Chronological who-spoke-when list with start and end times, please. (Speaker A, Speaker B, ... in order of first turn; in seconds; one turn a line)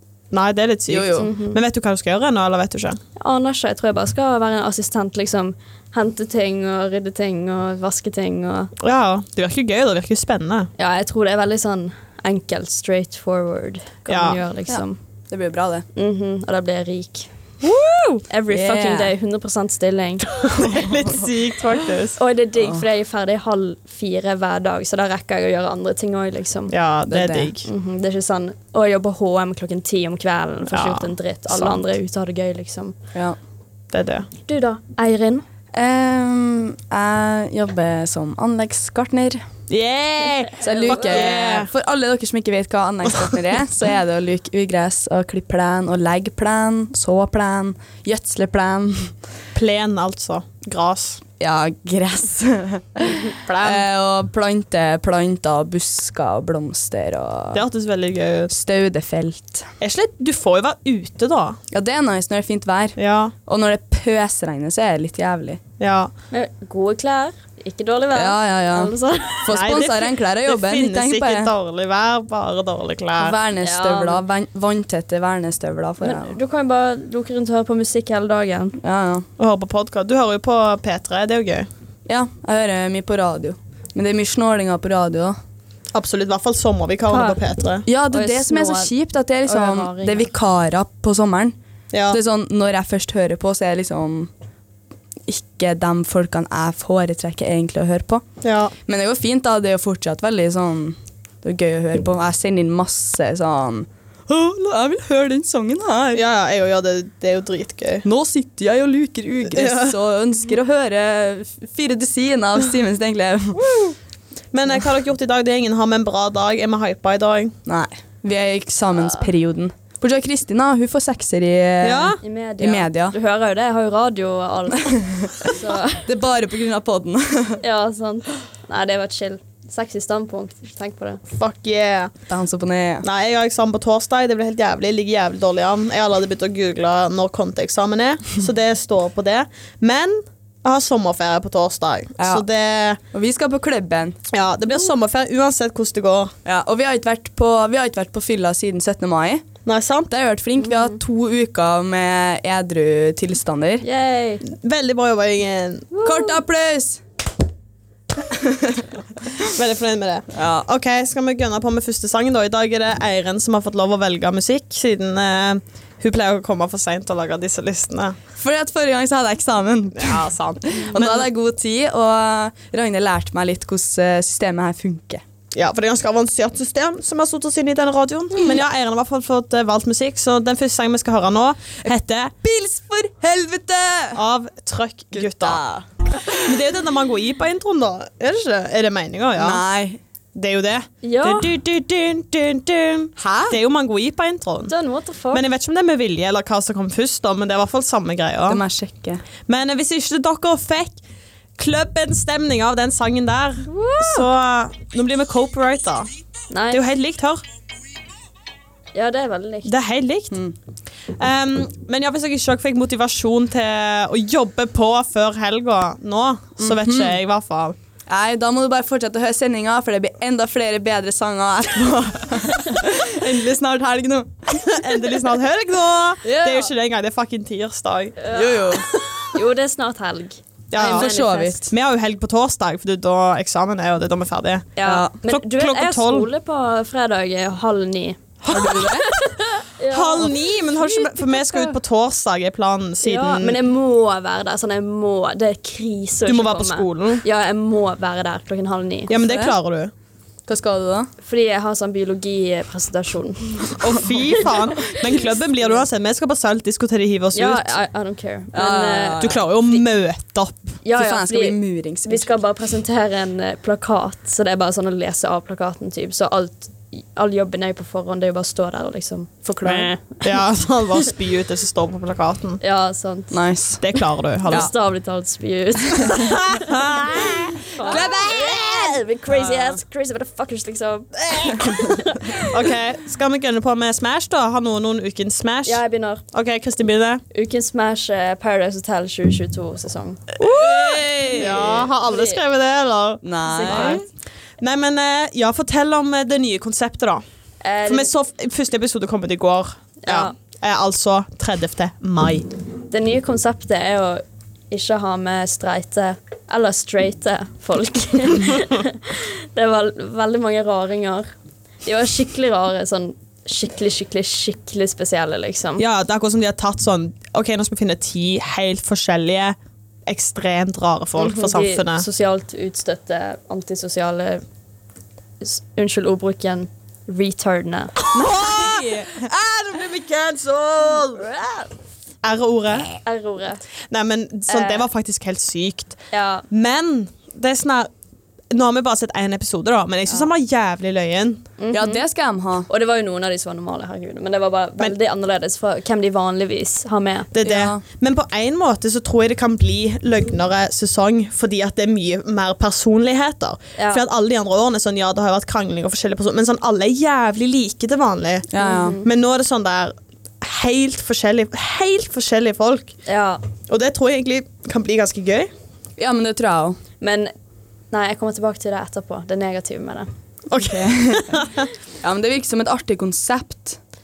Speaker A: 0.3-3.0
Speaker B: 0.9-1.3
Speaker C: 1.1-1.6
Speaker C: 3.2-8.7
Speaker A: 8.8-10.7
Speaker C: 10.8-15.0
Speaker A: 14.1-14.4
Speaker B: 14.7-15.8
Speaker C: 15.9-17.3
Speaker A: 17.6-18.2
Speaker C: 18.3-20.3
Speaker B: 18.5-19.1
Speaker A: 20.3-22.2
Speaker C: 22.1-26.7
Speaker A: 26.7-27.7
Speaker B: 27.1-27.5
Speaker C: 27.6-32.9
Speaker A: 30.7-31.8
Speaker A: 33.9-34.3
Speaker C: 34.5-35.4
Speaker B: 35.7-39.4
Speaker A: 39.7-41.7
Speaker B: 40.6-49.1
Speaker C: 40.7-41.3
Speaker A: 49.5-51.2
Speaker B: 51.4-57.6
Speaker A: 53.4-53.8
Speaker A: 57.5-58.5
Speaker B: 58.5-59.7
Speaker A: 59.8-61.6
Speaker B: 61.7-65.6
Speaker A: 63.0-63.3
Speaker A: 65.8-66.1
Speaker C: 66.3-69.6
Speaker B: 68.1-71.5
Speaker A: 69.5-73.4
Speaker B: 73.2-76.3
Speaker C: 73.6-74.2
Speaker C: 76.0-78.8
Speaker B: 78.8-79.2
Speaker A: 79.4-81.7
Speaker B: 82.0-85.3
Speaker A: 85.9-87.8
Speaker C: 87.1-87.4
Speaker B: 87.8-91.5
Speaker C: 88.1-88.9
Speaker C: 89.5-90.3
Speaker A: 91.9-92.2
Speaker B: 92.1-94.3
Speaker B: 95.3-98.2
Speaker A: 98.4-98.7
Speaker B: 98.8-106.2
Speaker A: 106.1-108.0
Speaker B: 108.0-113.6
Speaker A: 109.5-110.0
Speaker A: 113.5-113.9
Speaker A: 114.5-117.5
Speaker B: 117.7-123.1
Speaker A: 121.8-122.2
Speaker C: 122.2-126.1
Speaker B: 124.8-125.5
Speaker B: 126.0-127.6
Speaker C: 127.6-131.2
Speaker A: 131.3-132.1
Speaker B: 132.3-133.1
Speaker A: 133.0-143.0
Speaker B: 142.2-142.4
Speaker B: 143.1-144.2
Speaker A: 144.3-146.3
Speaker B: 146.4-149.4
Speaker A: 149.6-150.1
Speaker B: 150.1-153.8
Speaker C: 153.8-154.4
Speaker A: 154.4-155.9
Speaker C: 155.9-156.4
Speaker B: 156.0-157.0
Speaker B: 158.2-158.9
Speaker A: 159.4-168.2
Speaker B: 160.3-160.6
Speaker B: 168.4-175.2
Speaker A: 169.9-171.3
Speaker A: 175.5-182.3
Speaker B: 182.4-184.2
Speaker A: 184.1-185.6
Speaker B: 185.1-186.6
Speaker A: 186.4-189.6
Speaker B: 189.4-190.0
Speaker A: 190.3-194.7
Speaker C: 191.0-191.5
Speaker B: 193.2-193.6
Speaker C: 194.7-195.4
Speaker A: 195.3-198.6
Speaker B: 198.5-199.2
Speaker A: 199.4-201.0
Speaker A: 201.6-206.1
Speaker C: 203.7-204.2
Speaker C: 206.5-206.8
Speaker A: 206.7-207.4
Speaker C: 208.9-209.7
Speaker A: 209.6-210.4
Speaker A: 211.2-217.8
Speaker B: 216.6-217.1
Speaker B: 218.1-224.7
Speaker A: 224.5-228.2
Speaker B: 226.2-226.7
Speaker C: 228.2-231.7
Speaker B: 228.3-228.9
Speaker A: 230.7-231.1
Speaker B: 230.8-231.6
Speaker A: 231.7-236.3
Speaker C: 234.8-240.9
Speaker B: 234.8-235.1
Speaker A: 238.4-239.0
Speaker B: 238.5-239.1
Speaker A: 239.9-243.6
Speaker C: 243.0-249.1
Speaker A: 246.3-247.2
Speaker A: 249.1-249.9
Speaker B: 249.2-249.5
Speaker B: 250.5-251.1
Speaker C: 251.2-255.8
Speaker A: 253.8-257.7
Speaker C: 257.3-259.8
Speaker B: 258.5-259.4
Speaker A: 259.2-260.8
Speaker C: 260.8-270.2
Speaker B: 260.9-262.3
Speaker B: 269.4-269.9
Speaker A: 270.2-272.6
Speaker C: 272.6-273.4
Speaker B: 273.3-273.9
Speaker A: 273.8-274.7
Speaker C: 274.4-282.5
Speaker A: 276.2-279.7
Speaker B: 277.9-278.5
Speaker A: 281.3-281.8
Speaker A: 282.3-287.2
Speaker C: 285.6-286.2
Speaker C: 287.3-290.2
Speaker A: 290.4-294.0
Speaker B: 290.4-291.9
Speaker C: 292.0-292.4
Speaker B: 293.2-294.0
Speaker C: 293.4-294.0
Speaker A: 294.6-297.2
Speaker C: 297.6-298.1
Speaker A: 297.8-302.5
Speaker C: 300.0-300.3
Speaker C: 302.9-311.3
Speaker C: 311.8-315.8
Speaker A: 315.8-322.1
Speaker C: 321.2-324.4
Speaker C: 325.4-328.0
Speaker A: 328.1-331.3
Speaker B: 328.2-328.8
Speaker C: 331.1-331.7
Speaker A: 332.2-333.0
Speaker C: 333.0-333.6
Speaker A: 333.9-336.0
Speaker C: 334.5-334.9
Speaker C: 336.1-336.4
Speaker A: 336.5-337.9
Speaker A: 338.5-341.4
Speaker C: 341.6-342.0
Speaker B: 341.7-342.7
Speaker C: 342.7-347.3
Speaker A: 347.3-362.9
Speaker B: 347.4-347.8
Speaker C: 353.8-354.0
Speaker B: 358.5-359.0
Speaker C: 358.6-359.1
Speaker C: 363.1-363.4
Speaker A: 363.7-365.5
Speaker B: 366.0-366.8
Speaker C: 367.0-367.3
Speaker C: 367.9-370.1
Speaker A: 370.5-371.6
Speaker B: 370.6-371.4
Speaker B: 372.0-373.8